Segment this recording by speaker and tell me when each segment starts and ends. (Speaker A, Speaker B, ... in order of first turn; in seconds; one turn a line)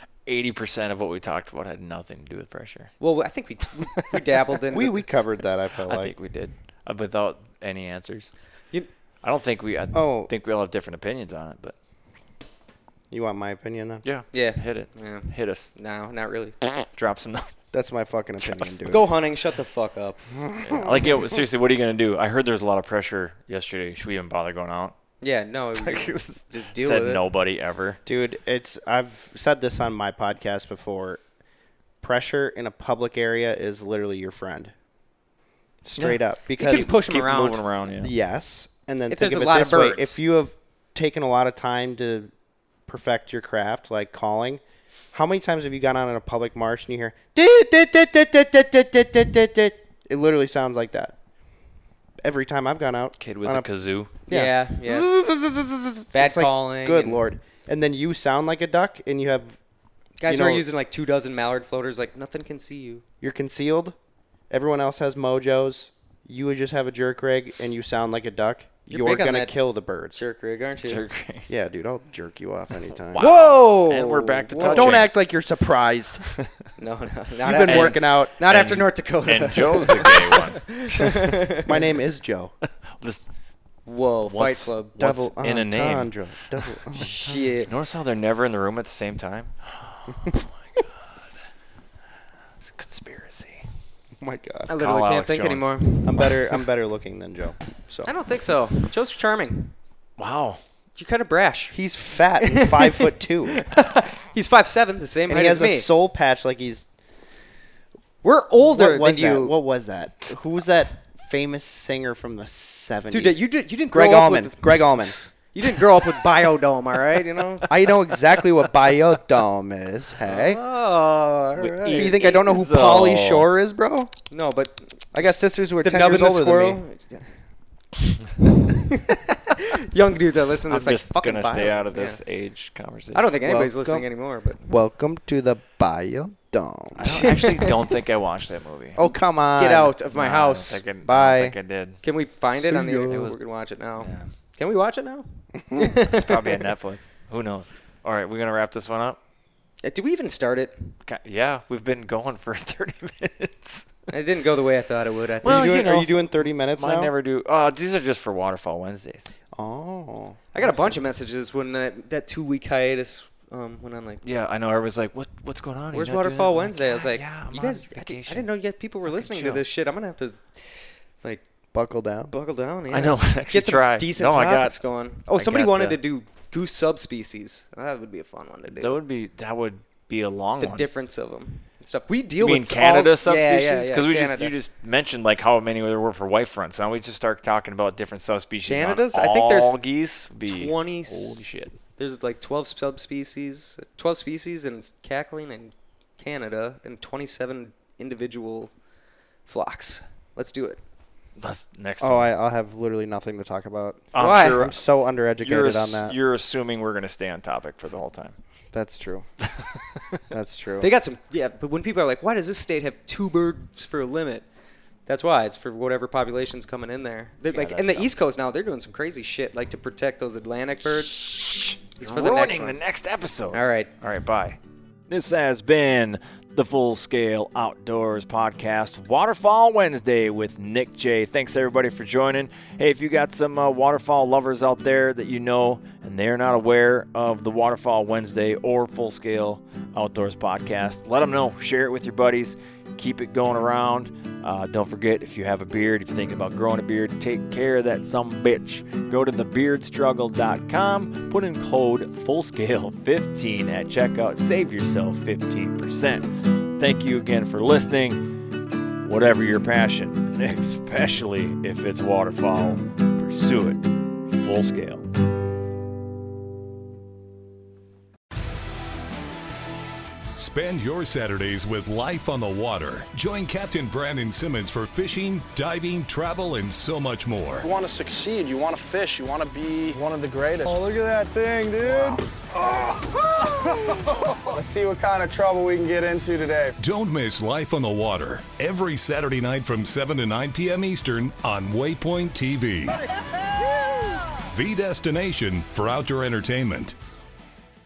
Speaker A: 0.3-3.0
Speaker B: 3.0-5.0
Speaker C: 4.7-6.1
Speaker A: 5.8-8.4
Speaker A: 9.2-11.8
Speaker C: 9.9-10.3
Speaker C: 13.1-14.0
Speaker A: 14.0-15.8
Speaker B: 14.3-16.6
Speaker A: 16.6-17.6
Speaker C: 17.7-19.1
Speaker A: 18.4-18.8
Speaker B: 18.9-20.4
Speaker C: 20.5-20.9
Speaker A: 20.6-24.9
Speaker B: 25.2-27.2
Speaker A: 25.8-28.0
Speaker C: 28.1-31.2
Speaker C: 32.0-34.7
Speaker C: 35.8-36.9
Speaker A: 36.0-38.1
Speaker B: 36.6-37.6
Speaker C: 38.0-42.3
Speaker B: 39.1-40.2
Speaker C: 42.9-51.2
Speaker C: 52.2-59.6
Speaker A: 53.2-54.1
Speaker B: 54.3-55.1
Speaker B: 56.1-57.2
Speaker B: 60.2-63.0
Speaker C: 60.2-60.6
Speaker C: 63.2-64.0
Speaker C: 64.5-70.2
Speaker B: 68.9-69.6
Speaker B: 70.2-71.0
Speaker A: 70.9-71.5
Speaker C: 71.5-73.2
Speaker A: 73.1-75.1
Speaker B: 73.2-75.0
Speaker C: 74.7-76.3
Speaker B: 76.8-81.7
Speaker C: 77.4-78.3
Speaker A: 77.6-81.3
Speaker C: 81.7-82.5
Speaker A: 82.9-83.3
Speaker B: 83.9-85.0
Speaker A: 84.2-90.9
Speaker C: 85.0-87.1
Speaker B: 87.0-87.7
Speaker A: 92.6-93.8
Speaker C: 94.2-94.7
Speaker B: 94.7-96.3
Speaker A: 94.8-96.3
Speaker C: 96.0-98.1
Speaker B: 98.0-99.8
Speaker A: 100.2-100.6
Speaker B: 101.0-101.8
Speaker C: 101.7-103.7
Speaker B: 102.5-105.9
Speaker C: 105.3-106.9
Speaker B: 108.2-109.5
Speaker C: 108.6-115.2
Speaker B: 113.1-118.2
Speaker C: 117.7-120.6
Speaker B: 120.3-122.2
Speaker A: 121.6-123.5
Speaker C: 121.9-124.1
Speaker B: 124.3-125.1
Speaker C: 125.1-126.8
Speaker B: 125.8-127.4
Speaker B: 128.7-132.2
Speaker A: 130.7-133.3
Speaker B: 133.1-134.7
Speaker C: 133.4-134.1
Speaker C: 134.7-137.3
Speaker A: 136.9-139.0
Speaker B: 137.1-137.7
Speaker C: 139.0-139.9
Speaker B: 139.6-140.8
Speaker A: 140.1-142.0
Speaker C: 141.1-141.6
Speaker B: 142.0-146.7
Speaker C: 142.5-143.3
Speaker A: 143.1-143.4
Speaker A: 144.0-144.3
Speaker A: 146.1-149.2
Speaker B: 149.8-151.0
Speaker A: 151.1-153.9
Speaker B: 154.1-155.8
Speaker A: 155.4-159.3
Speaker C: 155.4-157.1
Speaker C: 159.5-160.4
Speaker B: 160.5-164.2
Speaker A: 160.6-161.0
Speaker A: 164.2-168.5
Speaker B: 165.9-171.4
Speaker A: 169.0-169.7
Speaker C: 171.7-172.3
Speaker B: 172.3-178.9
Speaker A: 172.9-176.0
Speaker A: 178.7-180.9
Speaker B: 180.6-184.5
Speaker A: 182.4-191.8
Speaker B: 188.7-189.8
Speaker B: 190.5-191.4
Speaker B: 191.9-198.7
Speaker B: 199.5-200.8
Speaker A: 201.4-202.3
Speaker C: 202.0-206.2
Speaker A: 204.1-204.8
Speaker B: 204.2-204.6
Speaker A: 205.4-208.4
Speaker C: 208.7-209.5
Speaker C: 210.3-210.9
Speaker B: 210.8-214.4
Speaker B: 215.1-222.8
Speaker A: 217.5-218.1
Speaker A: 222.0-224.6
Speaker B: 223.5-223.9
Speaker A: 225.1-258.4
Speaker A: 259.0-265.0
Speaker D: 270.4-277.7
Speaker E: 277.6-286.7
Speaker D: 286.8-293.0
Speaker D: 294.5-296.9